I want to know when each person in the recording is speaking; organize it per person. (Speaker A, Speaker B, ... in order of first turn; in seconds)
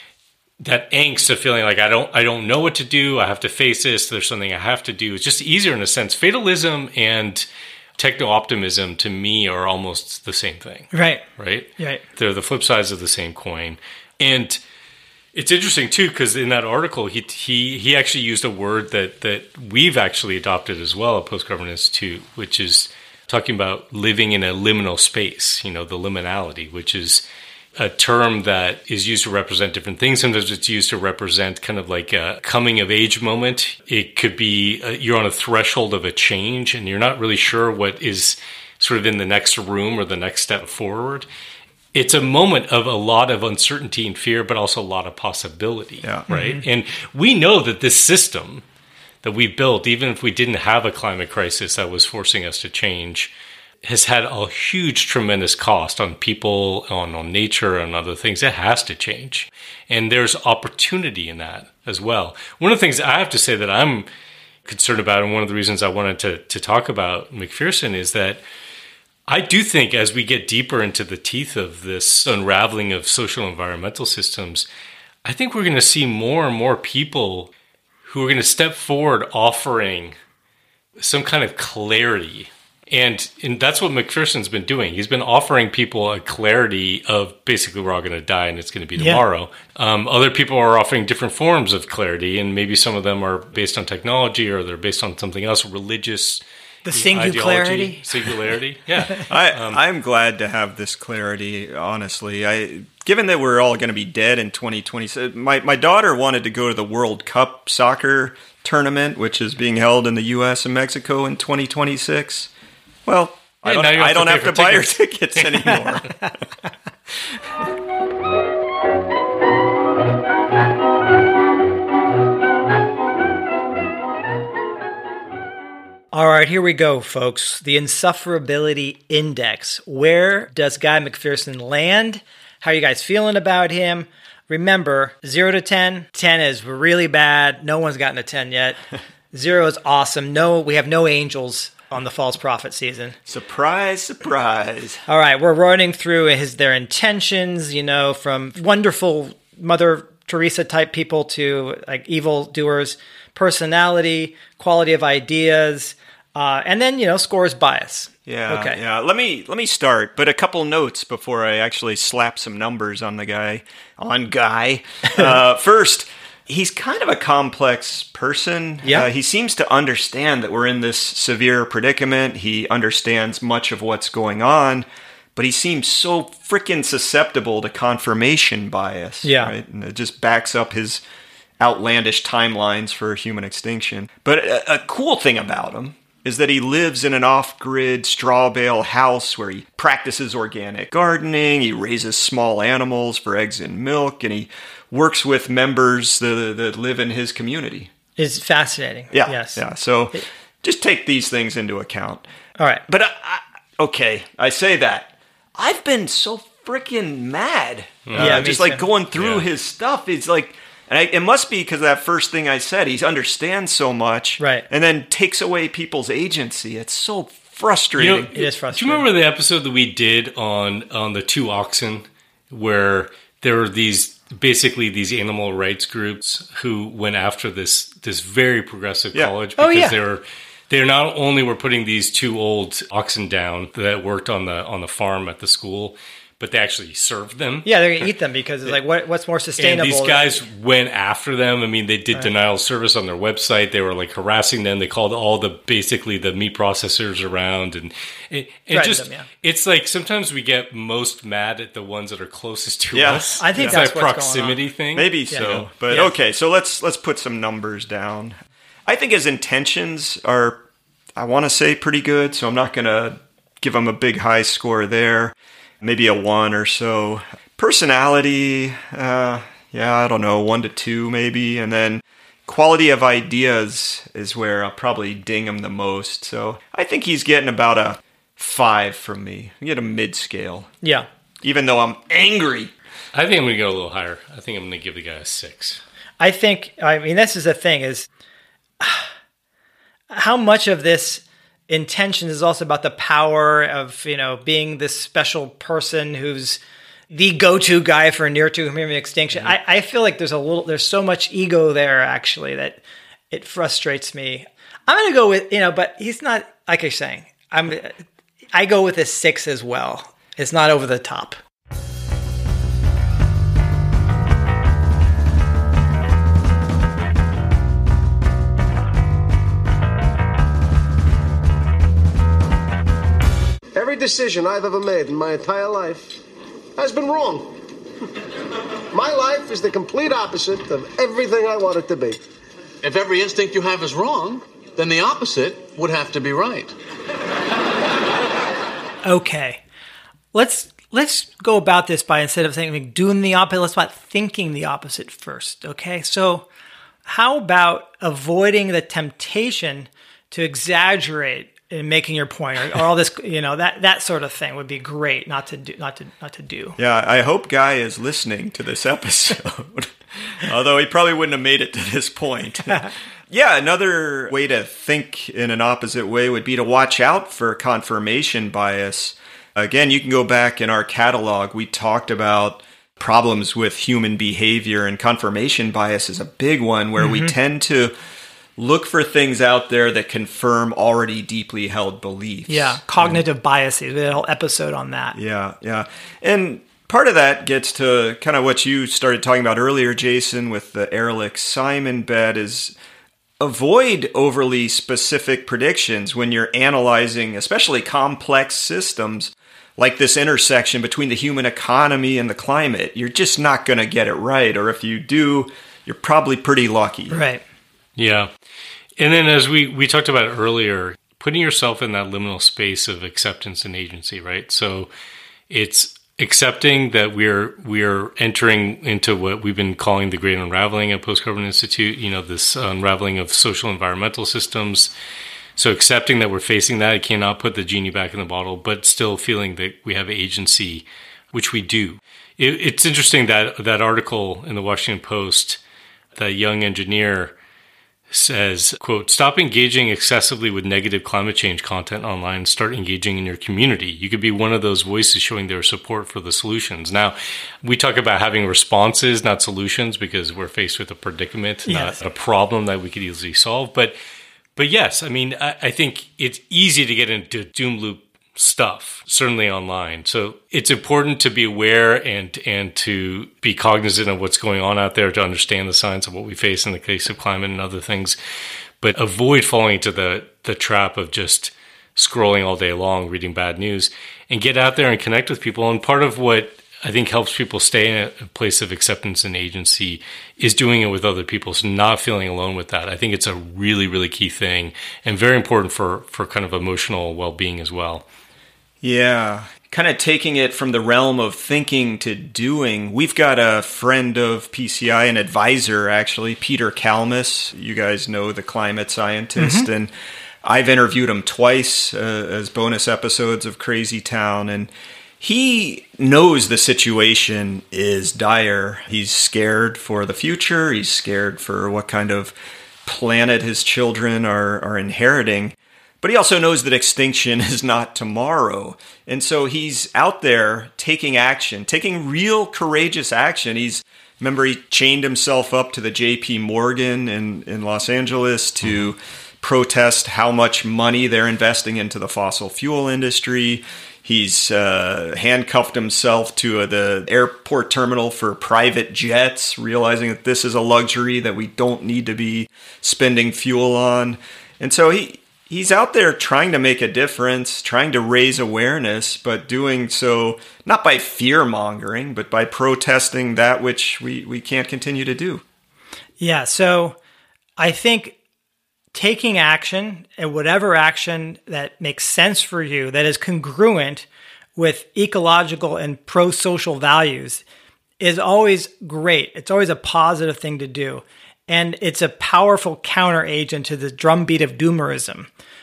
Speaker A: 0.6-7.5, 8.0-14.6, 15.3-27.2, 27.8-41.3, 41.9-48.6, 49.2-53.3, 53.8-64.1, 64.7-68.4, 69.3-74.7, 75.2-77.5, 78.0-80.2, 81.0-99.8, 113.6-115.9, 208.1-208.4, 209.2-209.5, 218.0-238.1, 239.6-255.7, 283.1-285.8, 408.0-408.3, 409.0-414.9, 415.5-424.9, 425.6-435.6, 436.2-437.4, 438.1-454.0, 454.6-468.2, 468.8-488.0
Speaker B: 10.9-11.2, 46.3-46.6, 89.0-89.2, 96.9-98.3, 126.1-138.8, 139.3-143.2, 145.1-158.8, 179.2-179.5, 198.2-199.6, 202.6-202.8, 208.2-208.8, 214.4-214.7, 218.3-219.1, 229.6-230.0, 237.7-240.4, 248.7-249.3, 253.4-254.6, 255.3-256.1, 286.2-288.1, 288.8-289.1, 290.1-308.0, 308.5-311.4, 339.1-339.6, 340.3-346.5, 347.1-356.8, 377.0-377.3, 382.5-385.2, 407.1-407.4, 451.7-452.0, 499.4-499.7, 556.2-557.0, 557.6-558.2, 558.9-567.4, 568.0-575.3
Speaker C: 99.3-112.5, 113.1-116.2, 143.3-145.0, 158.3-181.0, 181.6-197.9, 199.1-202.2, 202.9-218.3, 252.9-253.8, 254.9-260.6, 261.2-280.7, 281.4-282.7, 356.8-377.9, 378.6-383.2, 385.1-392.7, 393.4-407.2, 488.8-499.9, 500.4-512.3, 512.9-555.4
Speaker D: 323.8-326.2, 326.8-327.6, 328.9-332.2
Speaker E: 332.8-336.7